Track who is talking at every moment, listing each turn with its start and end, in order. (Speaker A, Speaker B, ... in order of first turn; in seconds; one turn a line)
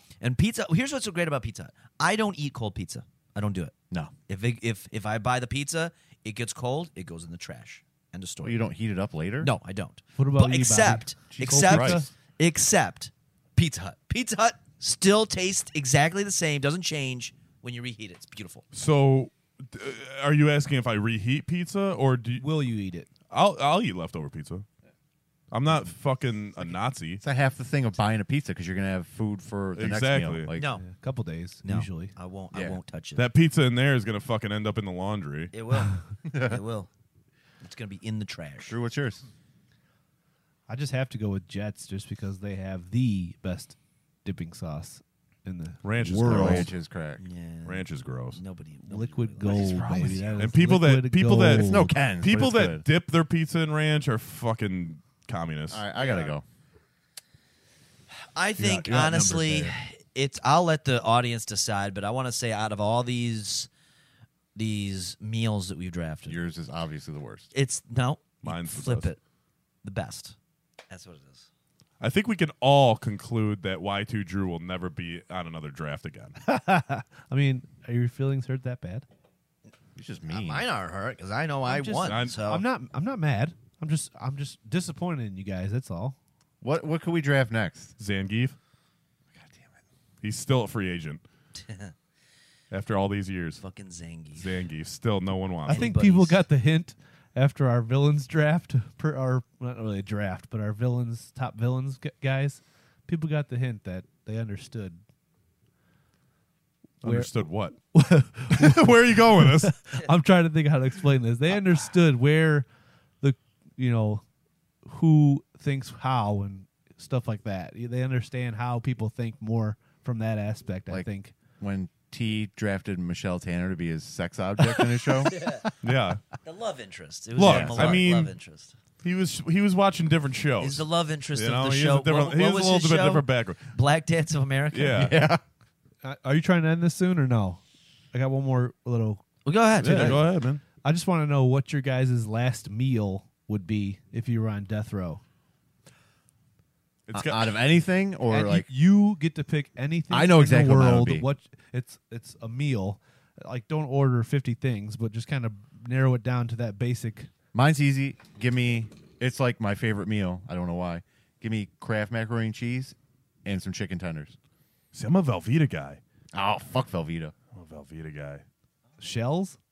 Speaker A: 0.2-3.8
Speaker A: 4.3-8.6
Speaker B: 8.4-9.5
Speaker A: 9.4-18.7
Speaker C: 10.2-12.1
Speaker B: 11.3-12.0
Speaker D: 18.7-22.5
Speaker C: 22.4-23.1
Speaker D: 23.3-24.6
Speaker D: 25.5-27.2
Speaker B: 27.2-30.7
Speaker D: 29.8-30.5
Speaker A: 30.6-30.9
Speaker C: 30.7-32.1
Speaker A: 31.6-33.3
Speaker B: 32.5-32.8
Speaker D: 33.1-35.5
Speaker A: 35.5-36.9
Speaker B: 36.3-36.6
Speaker A: 37.6-38.8
Speaker B: 38.6-39.2
Speaker C: 40.7-46.7
Speaker D: 45.8-46.7
Speaker B: 46.2-47.2
Speaker A: 47.2-50.2
Speaker D: 47.6-48.4
Speaker C: 48.9-51.9
Speaker B: 49.4-50.5
Speaker D: 50.4-55.8
Speaker B: 51.6-52.9
Speaker B: 55.7-56.4
Speaker A: 56.0-56.3
Speaker A: 58.3-63.7
Speaker C: 58.6-59.7
Speaker D: 58.7-59.5
Speaker A: 64.5-66.4
Speaker B: 66.3-67.5
Speaker A: 67.5-69.2
Speaker D: 68.4-69.1
Speaker A: 69.8-70.4
Speaker A: 70.9-71.5
Speaker D: 72.0-76.3
Speaker C: 76.4-79.1
Speaker B: 80.0-80.7
Speaker A: 80.3-82.6
Speaker C: 81.7-86.2
Speaker D: 82.0-82.4
Speaker B: 86.6-87.9
Speaker D: 88.0-88.6
Speaker B: 89.3-89.8
Speaker D: 90.2-91.2
Speaker A: 91.6-91.9
Speaker D: 92.7-93.6
Speaker A: 93.6-94.5
Speaker D: 94.3-95.9
Speaker C: 95.7-105.0
Speaker A: 95.7-96.4
Speaker D: 107.0-107.8
Speaker C: 107.0-107.3
Speaker C: 107.9-112.7
Speaker D: 108.5-109.8
Speaker C: 113.2-114.2
Speaker C: 114.8-121.3
Speaker B: 121.6-125.7
Speaker A: 125.2-125.7
Speaker D: 125.8-126.2
Speaker A: 126.4-128.8
Speaker D: 127.4-128.3
Speaker B: 127.4-128.0
Speaker D: 129.0-133.7
Speaker A: 130.6-135.1
Speaker D: 134.7-135.2
Speaker B: 134.9-135.4
Speaker C: 136.0-137.6
Speaker C: 138.1-139.2
Speaker A: 139.4-140.2
Speaker D: 139.8-140.6
Speaker C: 139.8-140.2
Speaker C: 140.8-145.2
Speaker D: 147.1-147.6
Speaker B: 147.1-148.7
Speaker C: 148.3-157.3
Speaker B: 150.1-151.3
Speaker B: 157.5-164.3
Speaker D: 164.9-166.0
Speaker B: 166.3-167.3
Speaker D: 167.5-168.4
Speaker C: 169.0-169.6